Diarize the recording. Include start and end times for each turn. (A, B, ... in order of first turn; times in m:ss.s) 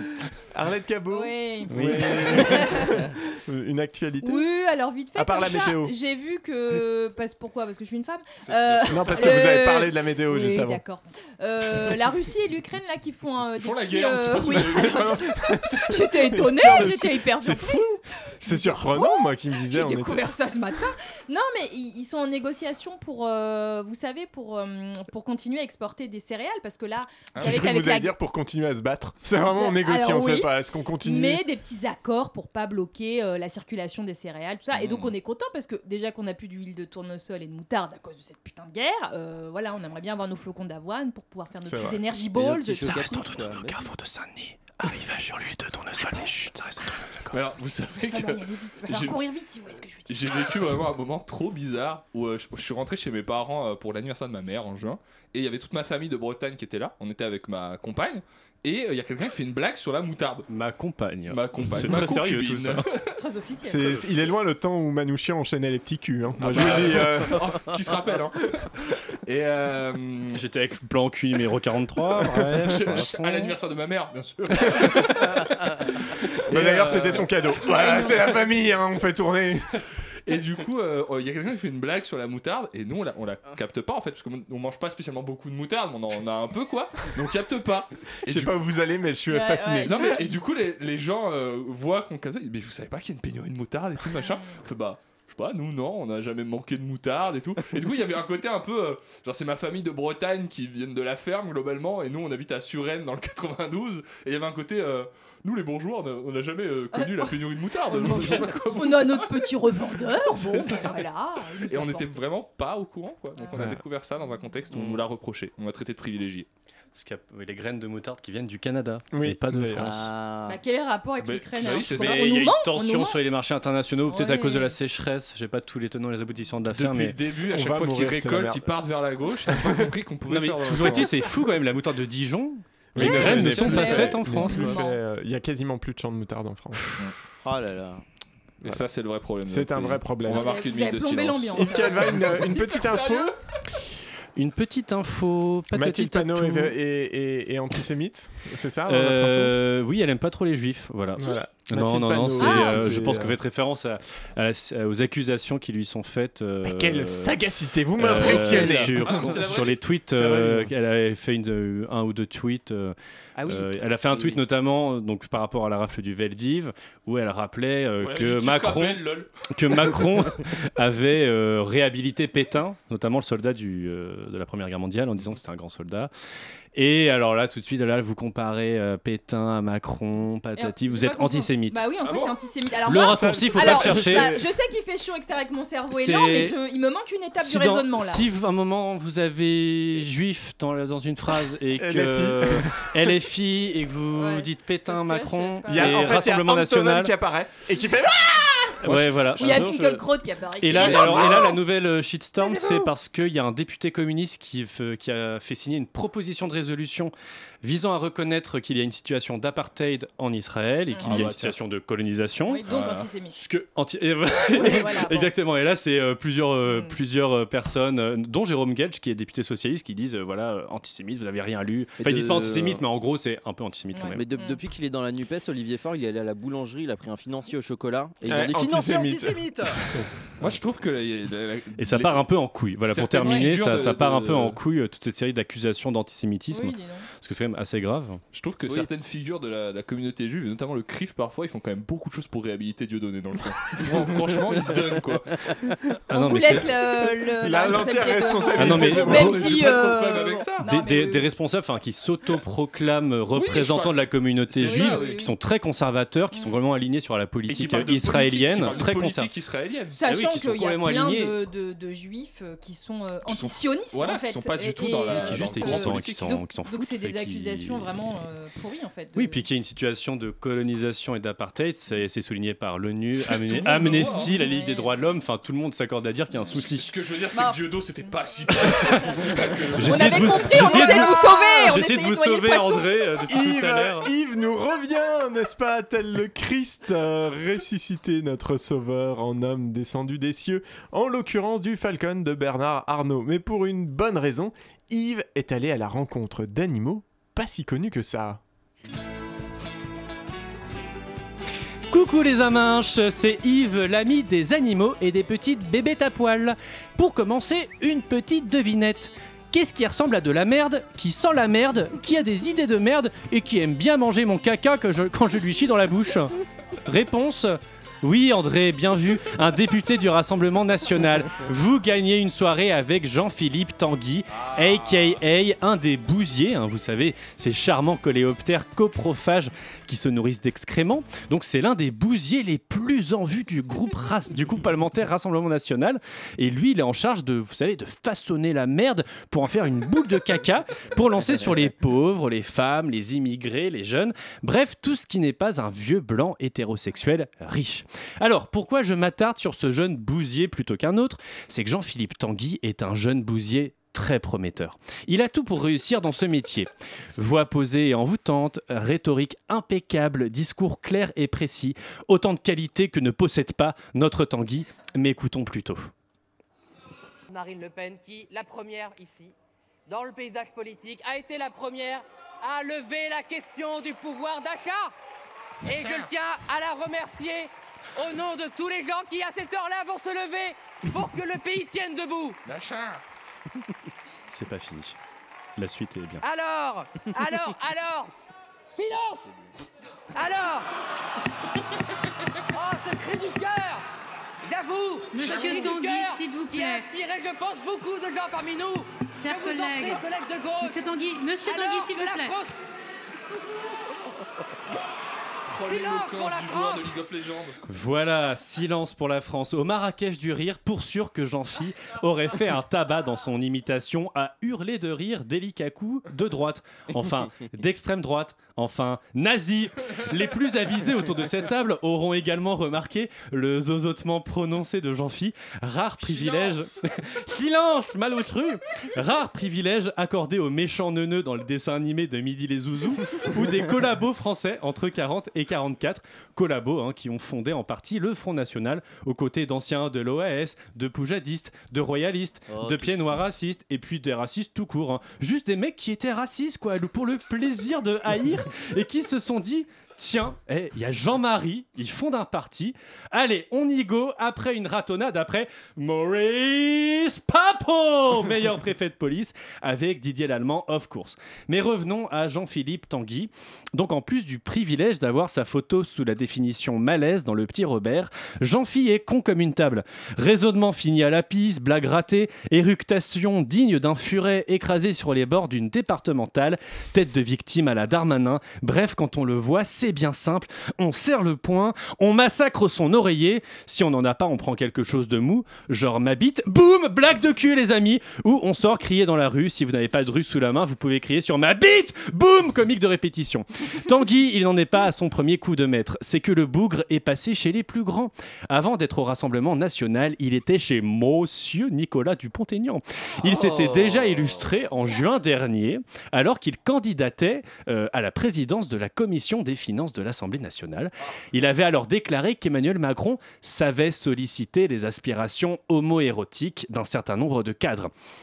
0:00.5-0:04.5 A
0:01.1-0:03.1 B
0:04.2-0:28.1 B
0:05.2-0:05.9 A
0:08.4-0:09.5 C
0:08.9-0:10.8 A
0:13.6-0:15.3 C
0:14.5-0:20.3 A
0:27.3-0:27.6 C
0:27.4-0:31.4 A
0:29.5-0:30.5 B
0:31.0-0:43.0 B
0:34.7-0:35.1 C
0:41.6-0:41.9 A
0:42.3-0:43.8 D
0:42.7-0:47.4 E
0:47.3-0:49.2 C
0:48.0-0:50.6 B
0:50.1-1:00.5 C
1:00.5-1:02.9 E
1:01.3-1:03.1 C
1:03.0-1:04.0 B
1:03.6-1:07.4 A
1:06.4-1:10.4 C
1:10.3-1:13.5 E
1:12.4-1:15.5 C
1:16.5-1:19.7 A
1:16.5-1:17.3 E
1:20.2-1:28.6 C
1:28.2-1:30.0 A
1:29.3-1:30.2 B
1:29.8-1:49.5 C
1:34.2-1:34.6 B
1:46.9-1:47.3 B
1:47.9-1:52.2 B
1:50.2-1:51.0 C
1:51.6-1:56.5 C
1:53.5-1:53.8 A
1:54.7-1:55.0 E
1:56.9-2:00.1 E
1:59.1-2:00.0 A
1:59.8-2:00.6 D
2:00.5-2:03.2 B
2:01.2-2:02.4 C
2:01.9-2:07.2 E
2:04.1-2:04.7 B
2:06.7-2:11.2 C
2:07.3-2:08.7 A
2:09.5-2:09.9 A
2:10.3-2:14.8 E
2:12.9-2:16.9 A
2:13.0-2:14.1 C
2:13.0-2:15.0 B
2:17.4-2:18.0 D
2:18.6-2:23.4 C
2:19.4-2:20.5 A
2:20.2-2:22.3 B
2:21.5-2:23.4 A
2:24.4-2:26.7 E
2:25.7-2:29.5 A
2:28.9-2:37.4 E
2:31.2-2:33.4 A
2:32.4-2:32.8 B
2:36.6-2:39.4 A
2:38.0-2:42.9 E
2:38.2-2:39.8 C
2:40.1-2:40.7 A
2:43.4-2:44.4 D
2:43.5-2:56.1 E
2:48.0-2:49.3 C
2:56.7-3:01.9 E
3:00.6-3:08.2 B
3:02.0-3:02.3 C
3:02.8-3:04.4 E
3:03.1-3:04.4 A
3:05.9-3:06.6 E
3:07.4-3:17.1 E
3:11.8-3:13.1 A
3:14.1-3:16.2 B
3:15.7-3:19.3 A
3:18.8-3:20.1 E
3:19.3-3:21.6 B
3:20.6-3:32.6 E
3:20.7-3:21.4 A
3:22.4-3:22.8 B
3:30.9-3:31.3 B
3:31.0-3:31.6 C
3:32.5-3:33.4 B
3:32.7-3:33.1 C
3:33.3-3:44.2 E
3:34.5-3:35.3 B
3:36.6-3:37.0 B
3:42.0-3:42.8 D
3:43.9-3:44.6 B
3:44.1-3:49.9 D
3:48.2-3:50.0 A
3:50.4-3:52.2 C
3:51.8-3:58.2 E
3:52.8-3:54.6 C
3:53.2-3:53.5 B
3:56.5-3:57.1 B
3:58.3-4:05.7 C
4:06.1-4:06.7 E
4:06.1-4:11.3 B
4:07.4-4:09.7 A
4:08.5-4:10.6 C
4:08.6-4:09.4 E
4:10.6-4:19.3 E
4:13.3-4:15.2 C
4:14.6-4:15.3 B
4:16.3-4:16.6 B
4:17.5-4:20.0 C
4:19.9-4:29.4 B
4:20.0-4:21.4 E
4:23.2-4:26.4 C
4:25.1-4:27.9 E
4:29.1-4:36.9 E
4:33.2-4:34.3 C
4:34.0-4:35.0 B
4:36.5-4:40.9 C
4:37.3-4:38.1 B
4:38.7-4:39.2 B
4:39.7-4:44.1 E
4:39.8-4:43.0 B
4:40.8-4:41.3 A
4:43.3-4:58.4 A
5:01.9-5:16.3 E
5:16.8-6:05.9 E
5:24.4-5:25.2 C
5:41.3-5:41.6 D
6:07.3-6:09.3 F
6:09.9-6:14.9 F
6:15.6-6:22.4 F
6:15.7-6:16.1 C
6:22.4-6:23.0 C
6:24.3-6:25.0 E
6:25.6-6:26.2 E
6:26.2-6:28.1 F
6:28.6-6:29.3 F
6:30.1-6:30.6 F
6:32.5-6:33.8 F
6:34.4-6:40.9 F
6:35.1-6:36.9 G
6:39.2-6:40.0 G
6:40.6-6:42.4 G
6:41.4-6:42.5 F
6:45.5-6:47.6 C
6:45.5-6:46.9 F
6:47.7-8:37.9 E
7:06.0-7:06.7 C
7:22.5-7:23.3 D
8:23.2-8:24.4 D